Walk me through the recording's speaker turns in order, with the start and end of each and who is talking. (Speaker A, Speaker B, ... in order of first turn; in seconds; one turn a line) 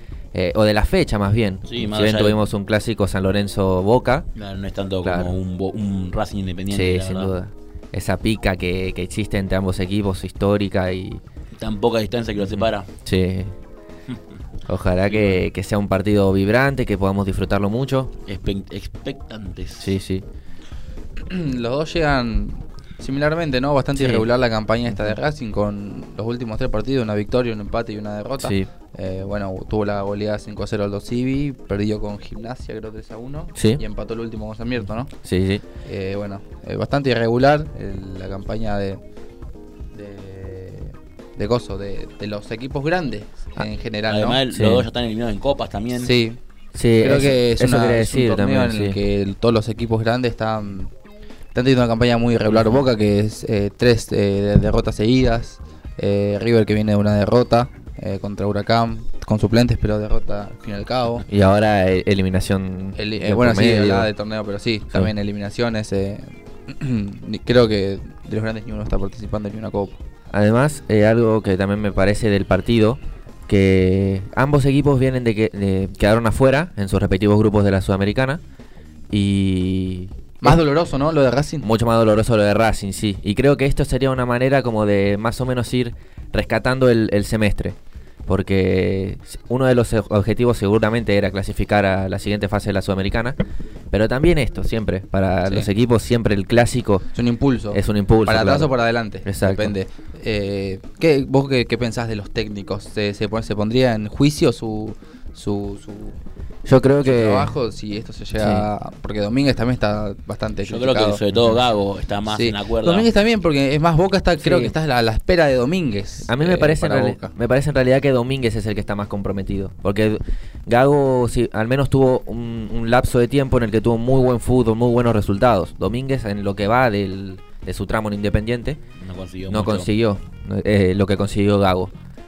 Speaker A: 0.3-4.3
Speaker B: 1.7-2.4
Speaker B: 4.3-7.3
Speaker A: 5.0-5.4
Speaker A: 6.7-11.2
Speaker B: 11.5-12.9
Speaker A: 12.5-13.6
Speaker A: 14.7-18.1
Speaker B: 15.1-15.4
Speaker B: 18.3-19.9
Speaker A: 19.8-20.2
Speaker C: 21.3-35.1
Speaker A: 24.0-24.3
Speaker A: 24.9-25.1
Speaker A: 28.4-28.7
Speaker A: 33.5-33.8
Speaker A: 35.2-35.6
Speaker C: 35.8-39.0
Speaker C: 39.9-44.4
Speaker B: 44.1-46.1
Speaker A: 44.5-44.9
Speaker C: 46.0-46.4
Speaker A: 46.8-49.0
Speaker C: 47.0-50.9
Speaker C: 51.5-61.2
Speaker A: 61.2-64.1
Speaker C: 63.0-70.0
Speaker A: 70.3-78.4
Speaker A: 79.1-80.6
Speaker C: 80.4-81.7
Speaker A: 81.6-93.4
Speaker A: 93.9-97.1
Speaker C: 97.1-106.2
Speaker A: 97.7-99.7
Speaker A: 106.7-107.5
Speaker C: 107.0-111.2
Speaker A: 108.4-108.7
Speaker B: 110.7-113.1
Speaker C: 112.3-117.3
Speaker A: 114.4-114.8
Speaker A: 116.3-128.8
Speaker B: 129.0-129.9
Speaker A: 129.5-131.9